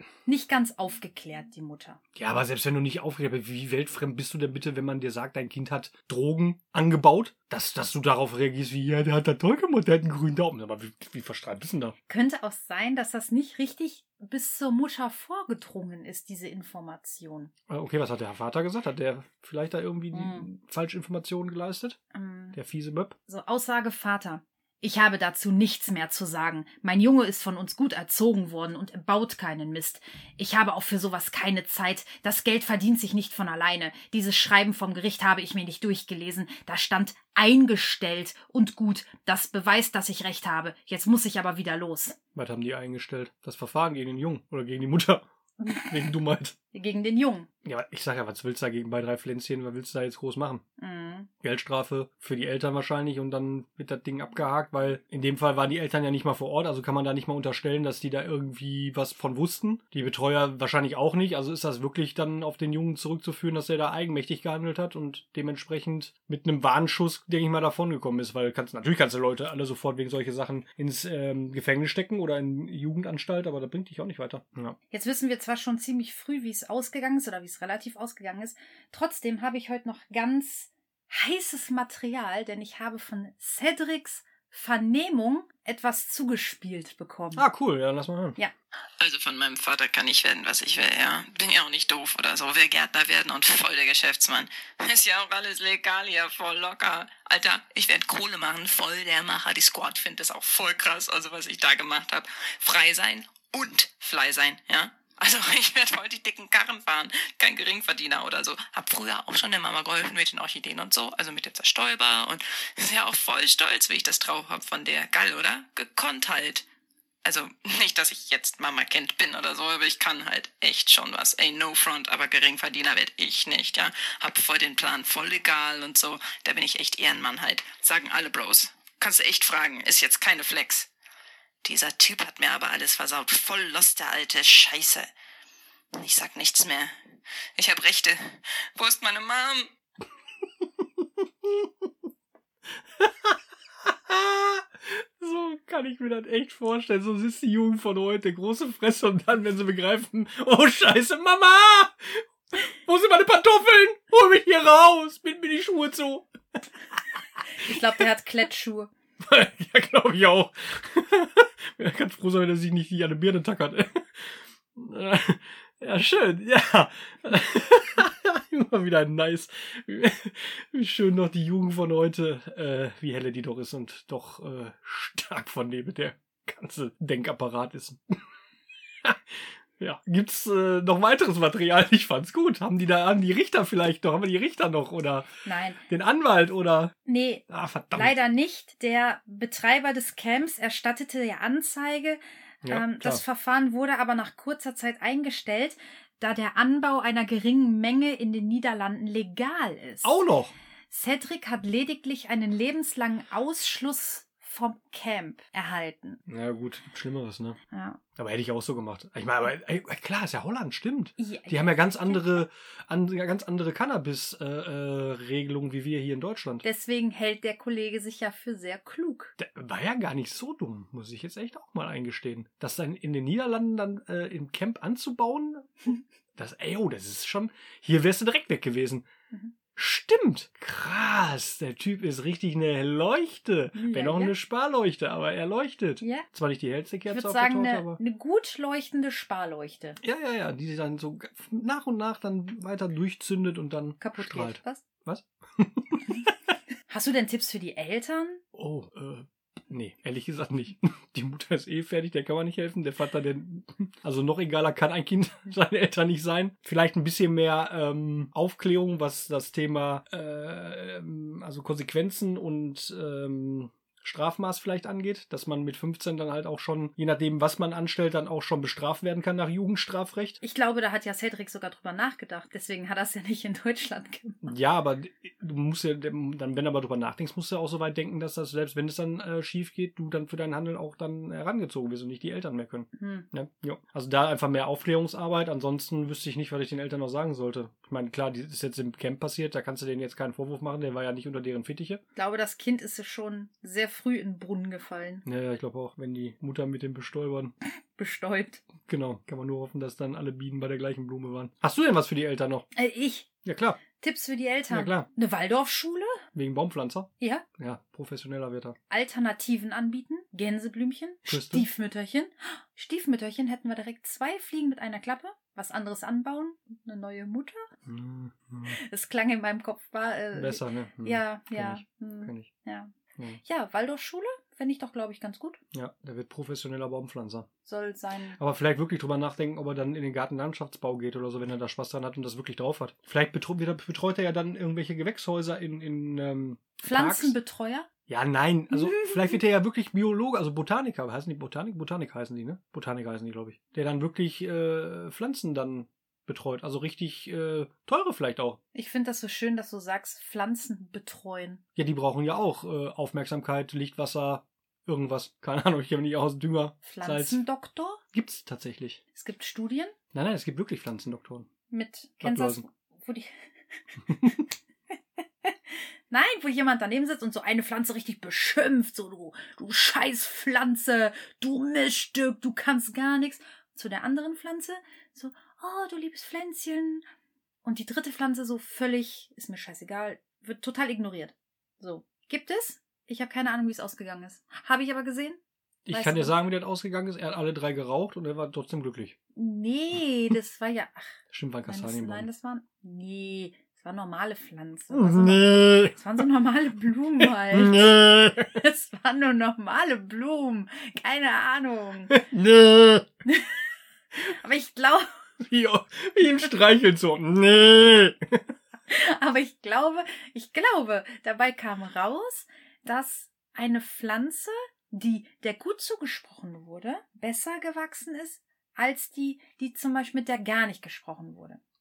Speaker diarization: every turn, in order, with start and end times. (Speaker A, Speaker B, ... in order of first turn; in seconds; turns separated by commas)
Speaker A: 0.2-2.0, Speaker B: 2.1-11.9, Speaker A: 12.1-17.5, Speaker B: 17.7-22.0, Speaker A: 20.1-20.5, Speaker A: 22.1-22.6, Speaker B: 22.6-23.1, Speaker A: 23.3-42.2, Speaker B: 42.4-46.5, Speaker A: 46.7-47.5, Speaker B: 47.6-50.6, Speaker A: 50.8-51.3, Speaker B: 51.4-74.8, Speaker A: 74.9-87.5, Speaker B: 87.4-88.4, Speaker C: 89.0-116.6, Speaker C: 117.2-130.9, Speaker C: 131.6-135.1, Speaker C: 136.0-136.9, Speaker C: 137.6-139.7, Speaker B: 140.8-141.7, Speaker B: 143.0-156.3, Speaker A: 157.5-158.9, Speaker B: 157.6-158.0, Speaker B: 159.2-178.2, Speaker B: 179.0-185.3, Speaker A: 185.4-185.8, Speaker B: 185.9-186.9, Speaker A: 187.1-200.2, Speaker B: 187.5-188.1, Speaker B: 192.6-193.2, Speaker B: 200.0-200.5, Speaker A: 200.9-206.2, Speaker B: 206.3-207.6, Speaker A: 207.7-208.0, Speaker B: 208.2-216.6, Speaker A: 211.2-212.4, Speaker A: 216.6-219.3, Speaker B: 219.4-229.1, Speaker B: 229.8-238.0, Speaker A: 233.7-234.3, Speaker A: 236.0-236.2, Speaker A: 237.1-240.0, Speaker B: 240.0-246.3, Speaker A: 244.0-244.8, Speaker A: 246.9-248.4, Speaker B: 248.6-270.4, Speaker A: 270.4-274.5, Speaker B: 274.4-292.0, Speaker A: 283.0-283.3, Speaker A: 292.1-295.2, Speaker B: 295.2-297.5, Speaker A: 297.6-298.6, Speaker B: 298.9-302.6, Speaker A: 302.8-303.3, Speaker B: 303.4-303.8, Speaker A: 303.9-306.2, Speaker B: 304.7-305.1, Speaker B: 306.4-308.8, Speaker A: 307.2-307.4, Speaker A: 308.9-317.6, Speaker B: 311.3-311.6, Speaker B: 317.9-318.8, Speaker A: 318.7-325.6, Speaker B: 320.3-322.5, Speaker B: 325.7-327.5, Speaker A: 327.6-328.4, Speaker B: 328.4-337.4, Speaker A: 336.8-337.9, Speaker B: 338.1-348.6, Speaker A: 338.8-339.1, Speaker A: 348.7-351.6, Speaker B: 351.8-357.4, Speaker A: 356.8-358.0, Speaker B: 358.1-359.0, Speaker A: 359.1-359.9, Speaker B: 360.1-361.5, Speaker A: 361.7-363.3, Speaker B: 362.2-362.6, Speaker B: 364.1-364.4, Speaker A: 366.1-377.1, Speaker A: 377.6-386.4, Speaker B: 385.9-389.1, Speaker A: 389.4-391.1, Speaker B: 391.3-392.3, Speaker A: 391.6-402.2, Speaker B: 394.9-395.9, Speaker B: 397.2-398.5, Speaker B: 402.1-403.1, Speaker A: 403.2-405.2, Speaker B: 405.4-408.4, Speaker A: 408.9-421.6